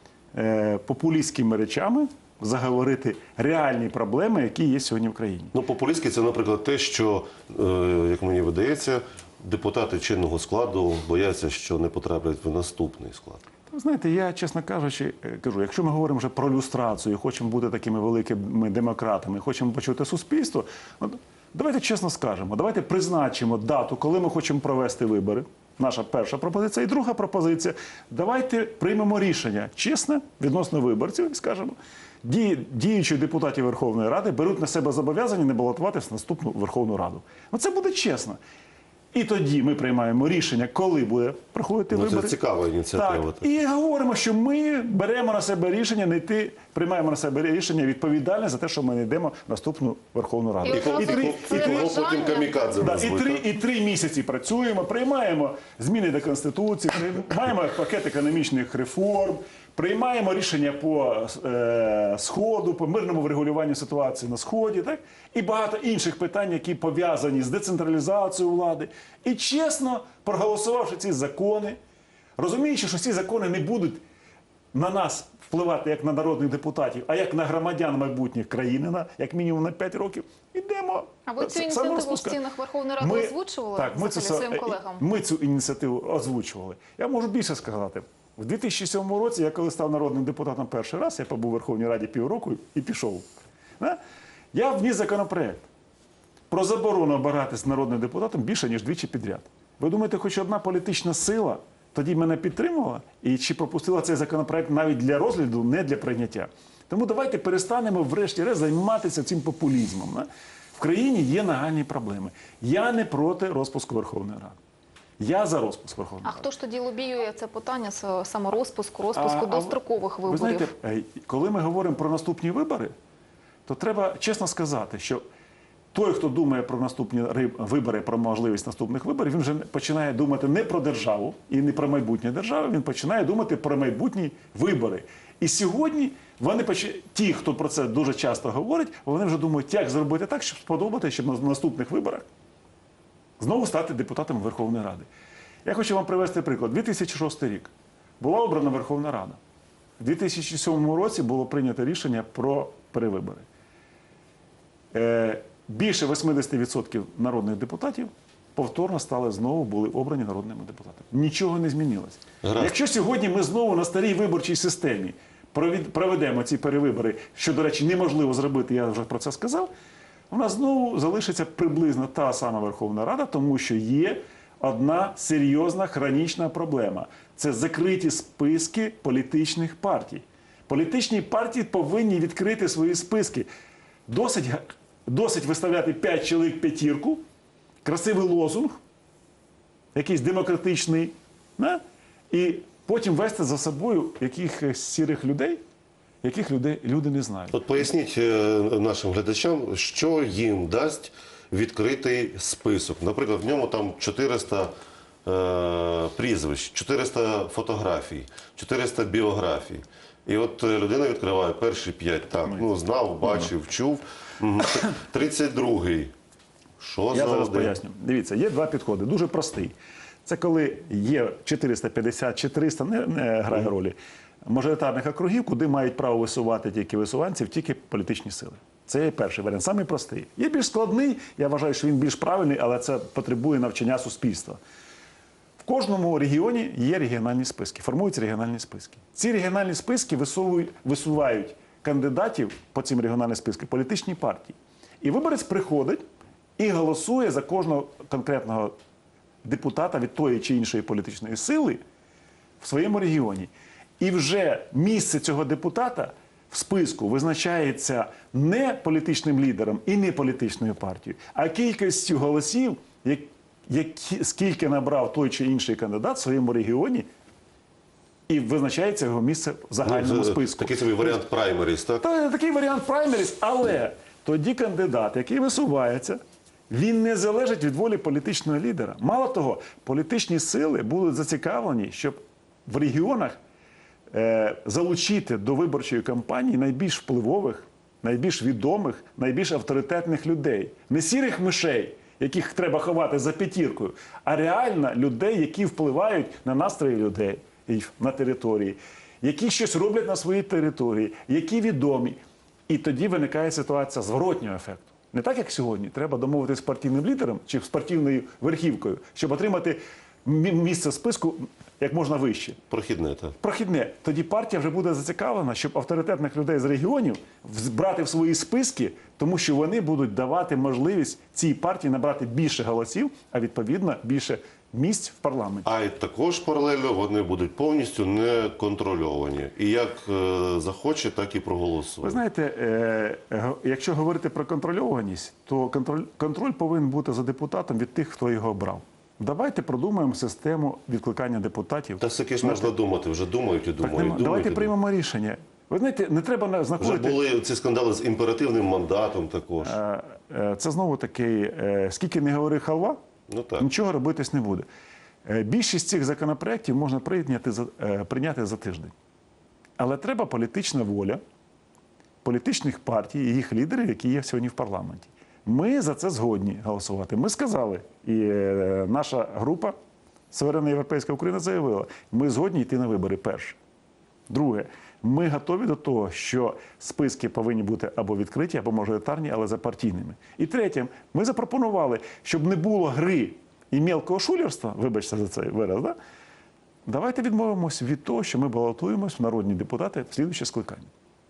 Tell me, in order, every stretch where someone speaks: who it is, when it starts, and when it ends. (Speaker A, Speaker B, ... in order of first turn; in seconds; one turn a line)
Speaker A: 0.3-5.5
Speaker B: 5.5-13.4
Speaker A: 13.7-38.4
Speaker A: 39.1-42.4
Speaker B: 41.9-43.5
Speaker A: 42.9-51.9
Speaker C: 50.6-53.0
Speaker B: 50.7-53.5
Speaker A: 52.8-71.8
Speaker A: 72.4-74.0
Speaker A: 74.7-82.4
Speaker C: 81.2-85.0
Speaker A: 83.0-93.3
Speaker A: 94.5-95.6
Speaker A: 96.5-114.6
Speaker A: 115.2-116.5
Speaker C: 116.2-120.7
Speaker A: 119.1-122.9
Speaker A: 123.7-125.2
Speaker A: 125.9-142.2
Speaker A: 143.4-145.1
Speaker A: 145.6-149.4
Speaker A: 150.0-153.4
Speaker A: 154.9-169.7
Speaker B: 162.4-162.8
Speaker A: 170.3-183.5
Speaker A: 184.1-187.2
Speaker A: 187.8-188.8
Speaker A: 189.9-195.6
Speaker A: 196.2-197.6
Speaker B: 197.5-204.7
Speaker B: 205.2-216.1
Speaker A: 213.2-213.5
Speaker B: 216.8-217.8
Speaker A: 217.1-219.7
Speaker A: 220.2-234.6
Speaker A: 235.6-246.0
Speaker A: 246.6-248.7
Speaker A: 249.4-251.8
Speaker A: 252.6-267.1
Speaker A: 268.3-271.2
Speaker B: 269.8-272.0
Speaker A: 272.0-276.2
Speaker A: 276.7-283.4
Speaker A: 284.1-302.2
Speaker A: 302.7-312.6
Speaker B: 312.7-313.4
Speaker A: 313.4-325.7
Speaker B: 325.6-332.2
Speaker A: 332.0-342.7
Speaker B: 342.0-344.7
Speaker A: 343.8-347.2
Speaker B: 346.8-349.7
Speaker A: 349.6-353.0
Speaker B: 353.3-353.7
Speaker A: 353.6-354.7
Speaker A: 355.2-358.9
Speaker A: 359.8-361.2
Speaker A: 362.2-369.7
Speaker A: 370.3-373.6
Speaker A: 374.3-385.9
Speaker A: 386.9-390.9